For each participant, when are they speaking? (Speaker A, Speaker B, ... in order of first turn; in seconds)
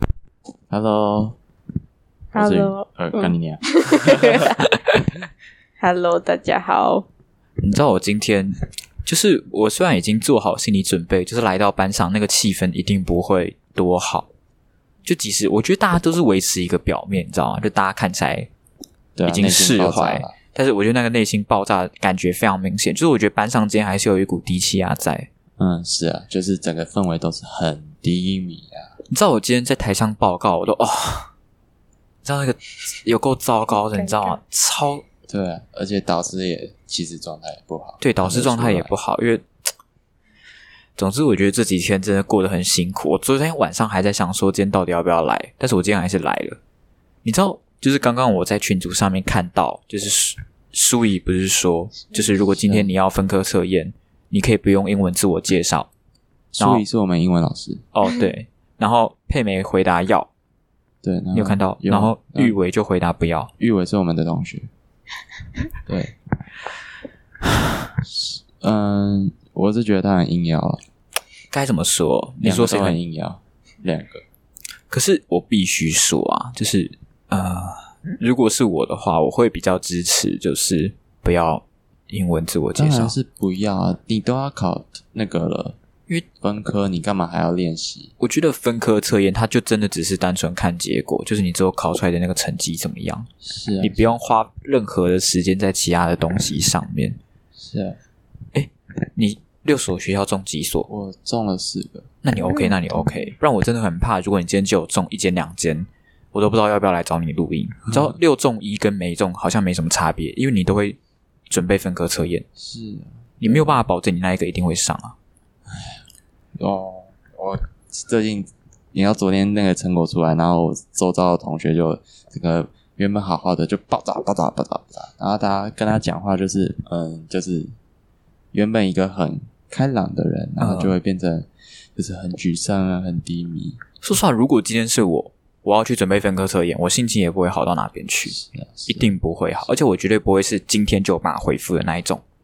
Speaker A: 0.7-1.4, 2.4-4.4, 19.2-20.4, 25.6-28.9, 35.3-38.9, 52.6-52.9, 56.5-57.8, 61.0-62.5, 63.6-64.7, 65.8-66.2, 68.0-70.8, 72.4-74.2, 82.8-85.8, 86.3-88.1, 93.4-94.1, 97.6-98.0, 100.9-102.1, 107.9-108.2, 112.6-113.8, 115.7-116.0, 116.6-127.7, 128.5-133.8, 138.3-139.1
Speaker B: 2.3-4.7, 5.8-7.1
Speaker C: 7.6-14.3, 15.0-18.5, 19.3-25.3, 29.1-31.3, 32.2-35.0, 38.0-39.5, 41.0-46.6, 47.2-55.9, 57.9-60.3, 61.3-63.5, 71.5-73.0, 74.9-83.2, 88.2-97.2, 98.5-100.9, 102.2-111.0, 111.5-112.5, 113.4-115.2, 130.6-131.0, 134.0-142.2